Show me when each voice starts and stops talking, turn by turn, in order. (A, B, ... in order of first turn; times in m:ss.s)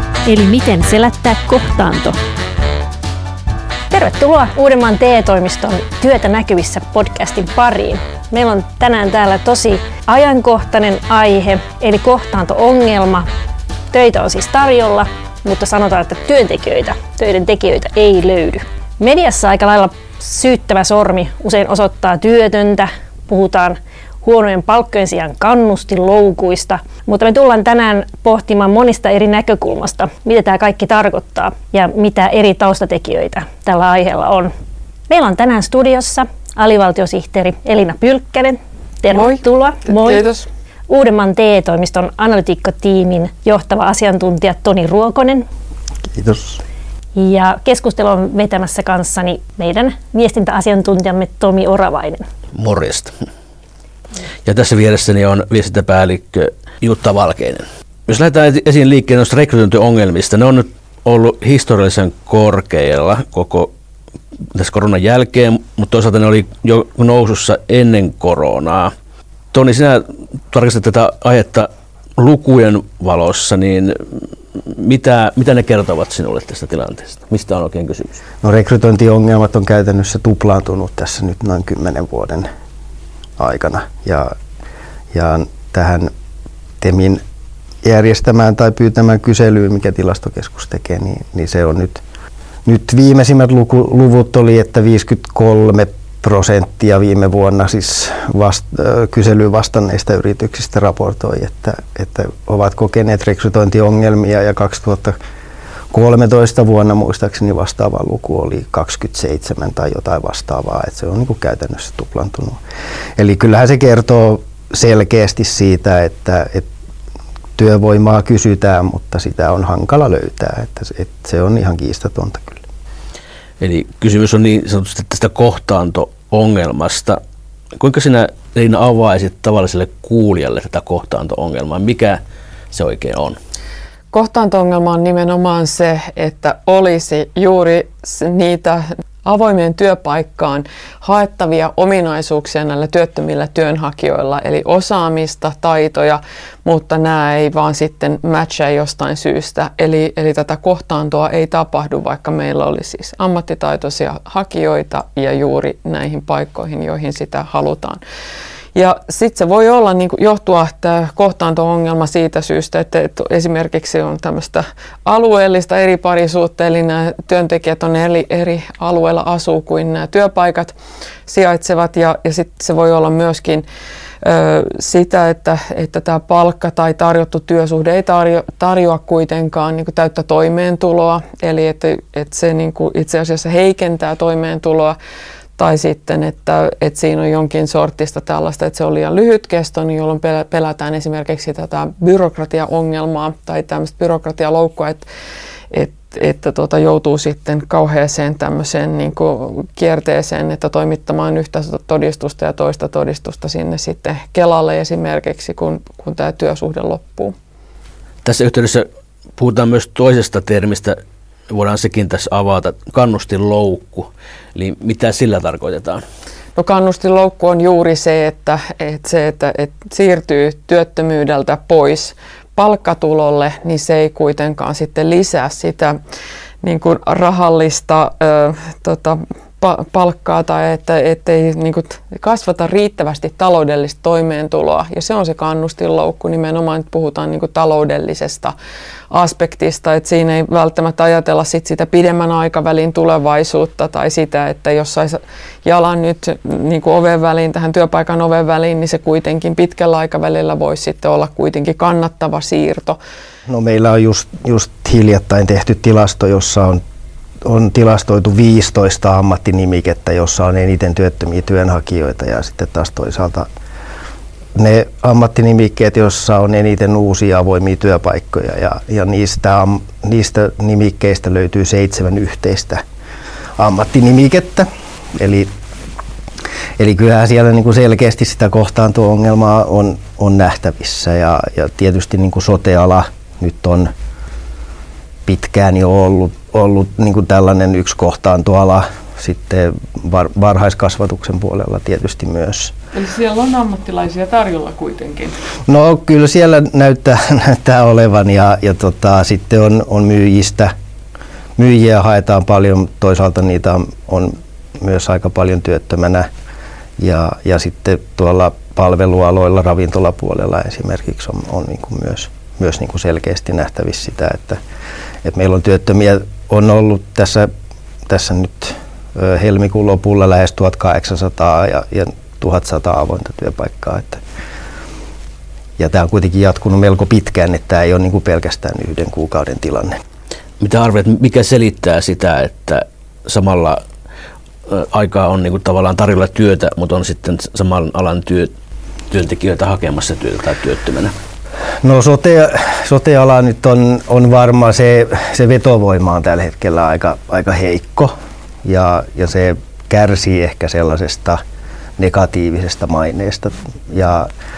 0:00.2-0:02.2 A
0:03.9-0:13.3 B
0:13.9-0:34.5 B
0:35.1-0:40.2 B
0:39.1-0:40.4 C
0:40.9-0:45.4 B
0:46.1-0:46.6 D
0:47.2-0:52.2 B
0:52.5-0:53.1 E
0:54.4-1:03.7 E
1:04.5-1:08.9 E
1:09.5-1:18.2 E
1:18.4-1:22.5 D
1:23.4-1:24.3 D
1:25.1-1:26.1 D
1:26.8-1:27.2 D
1:27.8-1:32.0 D
1:32.6-1:45.2 D
1:45.9-1:52.6 D
1:53.2-1:56.7 D
1:57.6-2:02.6 D
2:03.6-2:07.2 E
2:07.8-2:12.2 E
2:12.7-2:13.4 E
2:14.1-2:38.0 C
2:38.7-2:50.7 C
2:51.3-2:53.6 C
2:54.2-3:05.0 C
3:05.6-3:15.0 C
3:15.7-3:27.3 C
3:28.2-3:31.0 E
3:31.5-3:36.0 E
3:36.6-3:46.0 C
3:46.6-3:58.5 C
3:59.1-4:13.0 C
4:13.5-4:16.8 D
4:17.4-4:23.5 D
4:24.5-4:32.8 D
4:33.6-4:35.5 D
4:36.8-4:43.9 D
4:45.2-4:52.7 D
4:52.9-4:55.4 C
4:55.6-5:00.7 D
5:01.6-5:06.3 D
5:07.0-5:14.6 D
5:15.2-5:17.5 D
5:18.1-5:24.2 D
5:25.8-5:30.0 D
5:30.6-5:33.8 E
5:34.7-5:38.5 E
5:39.1-5:41.1 E
5:41.8-5:48.1 D
5:48.6-5:51.4 D
5:52.0-5:54.3 D